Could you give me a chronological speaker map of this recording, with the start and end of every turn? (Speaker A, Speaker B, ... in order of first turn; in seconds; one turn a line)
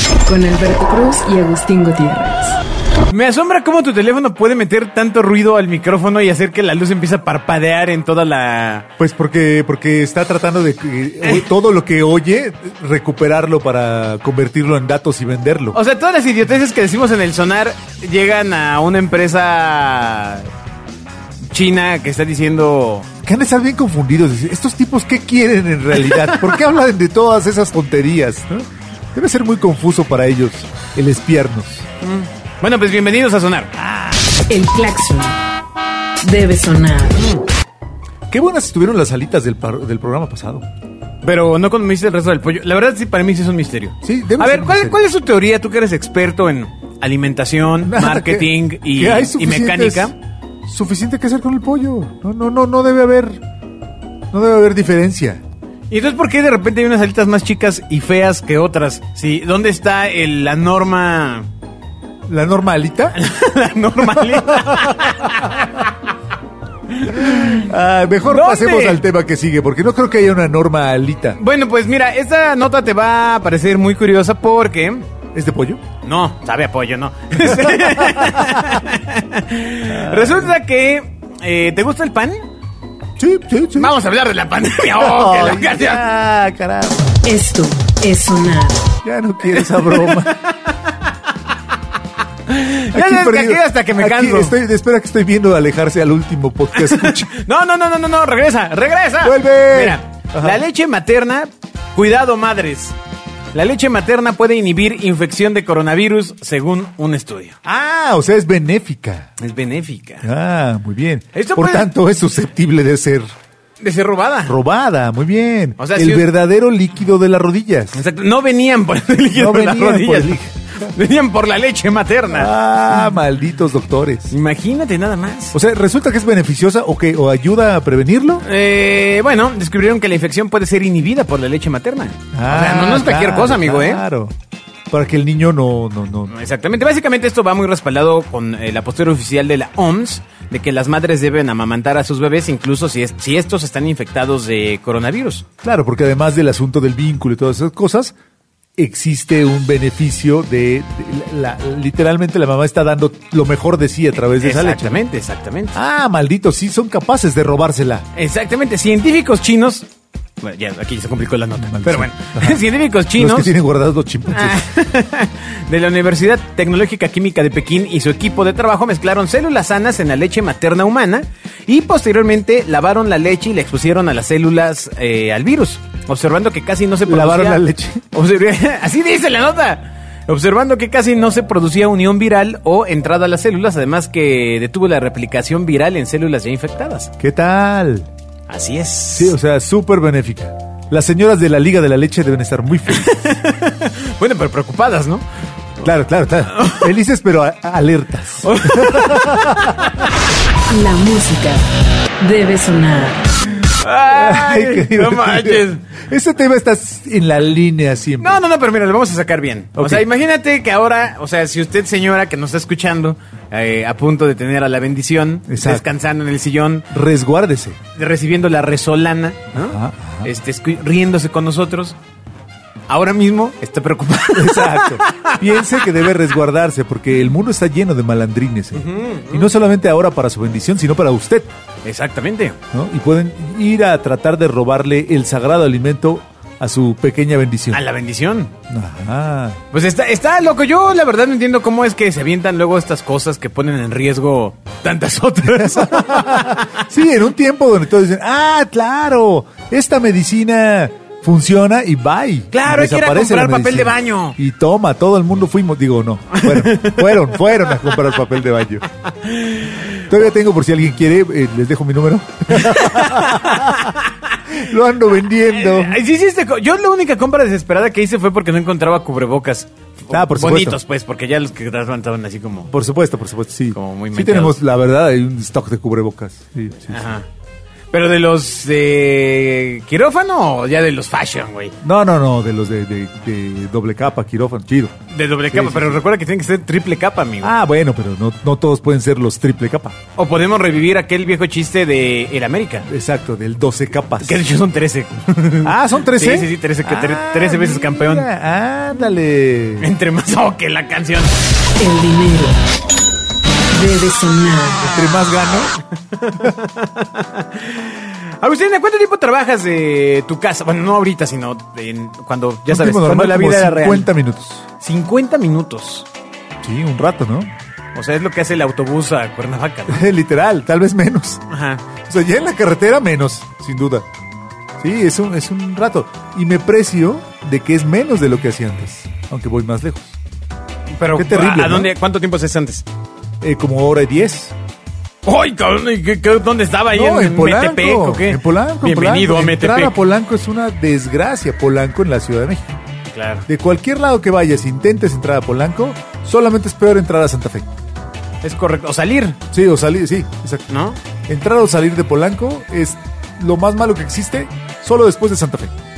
Speaker A: 0.2-2.6
Speaker B: 3.1-8.9
Speaker C: 9.0-15.8
Speaker B: 15.7-20.5
Speaker B: 21.5-23.1
Speaker C: 23.2-31.9
Speaker B: 26.1-26.5
Speaker B: 32.0-33.7
Speaker C: 33.8-34.4
Speaker A: 34.5-35.4
Speaker A: 36.2-37.4
Speaker C: 38.3-40.6
Speaker B: 41.2-50.1
Speaker C: 44.0-45.0
Speaker C: 47.8-50.1
Speaker C: 50.7-53.4
Speaker C: 54.3-55.4
Speaker B: 55.9-61.5
Speaker C: 62.3-63.2
Speaker B: 63.1-65.9
Speaker C: 64.0-65.7
Speaker B: 66.9-67.7
Speaker C: 67.0-71.4
Speaker B: 68.2-69.0
Speaker B: 71.4-75.0
Speaker C: 75.3-75.8
Speaker B: 76.0-82.4
Speaker C: 77.4-78.7
Speaker C: 79.9-80.5
Speaker C: 83.2-83.9
Speaker B: 83.7-86.0
Speaker C: 85.0-87.2
Speaker A: 87.2-88.8
Speaker C: 89.0-90.3
Speaker B: 89.5-90.9
Speaker B: 92.5-94.5
Speaker C: 92.9-97.3
Speaker B: 96.8-102.9
Speaker C: 99.2-100.6
Speaker B: 103.5-107.5
Speaker C: 107.6-109.3
Speaker B: 109.4-110.3
Speaker C: 110.2-113.3
Speaker B: 111.3-111.9
Speaker B: 113.8-114.5
Speaker C: 114.5-118.0
Speaker B: 115.8-116.3
Speaker B: 117.9-122.5
Speaker C: 119.3-120.9
Speaker C: 122.3-124.3
Speaker B: 124.3-125.5
Speaker C: 125.5-128.4
Speaker B: 128.4-134.0
Speaker C: 132.3-134.3
Speaker C: 134.9-136.3
Speaker B: 136.3-145.4
Speaker C: 145.6-148.1
Speaker C: 148.8-155.0
Speaker B: 154.2-155.8
Speaker C: 155.7-158.0
Speaker B: 158.1-159.9
Speaker B: 160.4-163.5
Speaker C: 161.6-162.6
Speaker C: 163.2-164.6
Speaker B: 164.3-177.6
Speaker C: 177.0-178.0
Speaker B: 178.1-187.1
Speaker C: 187.2-188.1
Speaker B: 188.5-189.3
Speaker C: 189.1-193.1
Speaker B: 192.9-195.2
Speaker C: 195.8-199.9
Speaker B: 196.5-196.9
Speaker B: 198.4-200.1
Speaker A: 200.7-201.6
Speaker A: 202.2-203.3
Speaker B: 203.8-205.8
Speaker C: 204.1-208.4
Speaker B: 208.2-216.8
Speaker C: 209.8-210.0
Speaker C: 215.5-215.8
Speaker C: 216.9-217.8
Speaker B: 217.9-222.0
Speaker C: 219.5-220.3
Speaker B: 222.9-225.9
Speaker C: 224.3-231.5
Speaker B: 228.7-229.5
Speaker B: 231.8-232.6
Speaker C: 232.7-237.8
Speaker B: 237.7-238.5
Speaker C: 238.7-239.6
Speaker B: 239.7-246.7
Speaker C: 245.4-258.8
Speaker B: 252.5-254.3
Speaker B: 256.3-257.2
Speaker B: 259.2-260.0
Speaker C: 260.1-263.9
Speaker B: 262.5-264.1
Speaker C: 264.5-266.0
Speaker B: 265.5-272.7
Speaker C: 270.1-270.8
Speaker C: 272.7-277.0
Speaker B: 273.7-274.5
Speaker B: 276.9-277.2
Speaker B: 277.9-281.7
Speaker C: 281.8-284.9
Speaker B: 285.1-287.5
Speaker C: 285.5-286.0
Speaker C: 287.4-290.0
Speaker B: 290.2-292.9
Speaker C: 292.8-294.4
Speaker B: 294.2-298.3
Speaker C: 295.6-299.9
Speaker B: 299.8-301.3
Speaker A: 301.8-302.6
Speaker A: 303.7-305.2
Speaker C: 304.8-305.7
Speaker B: 306.1-314.1
Speaker C: 312.7-314.6
Speaker B: 314.8-316.1
Speaker C: 316.6-317.5
Speaker B: 317.9-320.0
Speaker C: 319.9-321.4
Speaker B: 321.5-321.8
Speaker C: 322.0-324.1
Speaker C: 324.8-330.2
Speaker B: 331.0-332.8
Speaker C: 331.1-331.9
Speaker C: 333.4-334.5
Speaker B: 335.2-339.9
Speaker C: 336.9-342.8
Speaker B: 343.1-343.4
Speaker C: 343.5-347.7
Speaker B: 348.4-349.4
Speaker C: 349.5-350.7
Speaker B: 350.7-351.0
Speaker C: 351.3-355.7